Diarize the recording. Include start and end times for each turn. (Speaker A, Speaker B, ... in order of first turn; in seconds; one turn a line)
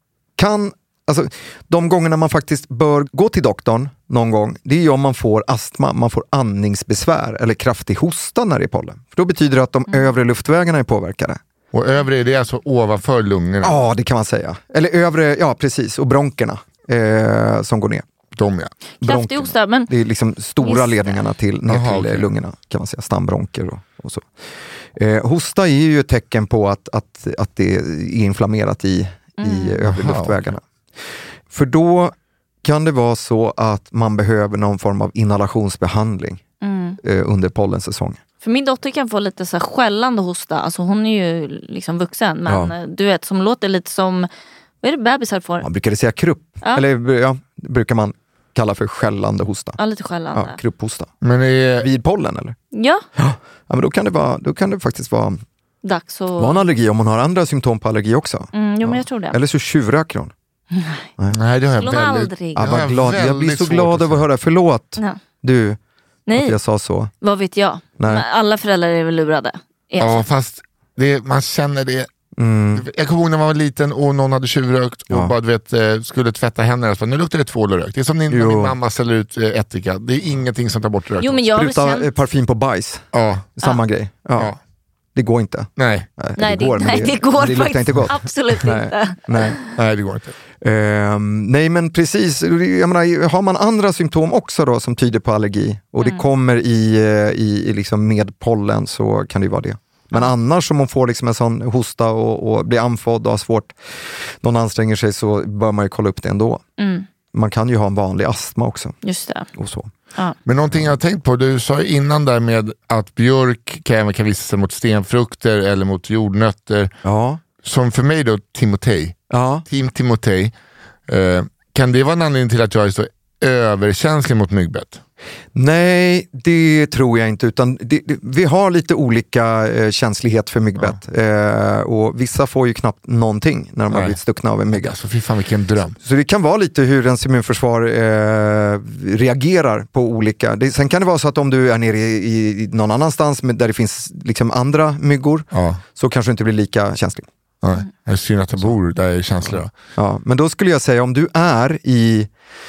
Speaker A: 0.4-11.4
Speaker B: 11.7-13.8
Speaker A: 13.6-18.1
Speaker B: 18.4-18.7
Speaker C: 19.0-19.9
Speaker A: 19.0-24.3
Speaker C: 20.6-21.3
Speaker B: 21.7-22.3
Speaker A: 24.9-30.6
Speaker C: 29.4-29.8
Speaker B: 29.9-30.4
Speaker A: 31.5-36.4
Speaker C: 36.6-37.0
Speaker A: 37.0-38.2
Speaker C: 38.4-44.3
Speaker A: 42.5-42.7
Speaker C: 44.8-45.7
Speaker A: 45.6-49.8
Speaker C: 49.8-50.6
Speaker A: 50.3-51.1
Speaker B: 51.2-51.9
Speaker A: 51.8-52.6
Speaker C: 52.7-53.1
Speaker A: 53.2-55.4
Speaker C: 55.8-56.6
Speaker A: 56.4-60.3
Speaker C: 58.5-59.4
Speaker C: 60.7-61.1
Speaker B: 61.3-64.2
Speaker C: 61.8-62.7
Speaker A: 62.6-65.8
Speaker C: 66.3-66.6
Speaker A: 66.3-67.1
Speaker C: 67.2-70.2
Speaker A: 68.0-68.2
Speaker B: 70.0-72.1
Speaker A: 72.4-72.9
Speaker B: 72.8-81.4
Speaker A: 78.3-78.8
Speaker C: 81.2-82.1
Speaker A: 81.5-84.5
Speaker B: 83.1-83.5
Speaker A: 85.2-89.6
Speaker B: 85.8-86.1
Speaker C: 86.4-89.7
Speaker B: 89.7-90.3
Speaker A: 90.6-103.8
Speaker C: 96.0-96.3
Speaker A: 104.4-106.6
Speaker C: 106.8-107.1
Speaker A: 107.3-109.0
Speaker C: 109.0-109.5
Speaker A: 109.5-109.9
Speaker B: 110.5-116.9
Speaker A: 117.0-117.4
Speaker B: 117.6-120.5
Speaker A: 119.3-119.7
Speaker B: 121.1-125.0
Speaker A: 125.5-135.0
Speaker B: 133.9-134.2
Speaker B: 134.7-136.0
Speaker A: 136.0-147.3
Speaker B: 145.5-145.8
Speaker B: 147.6-149.7
Speaker A: 149.5-152.3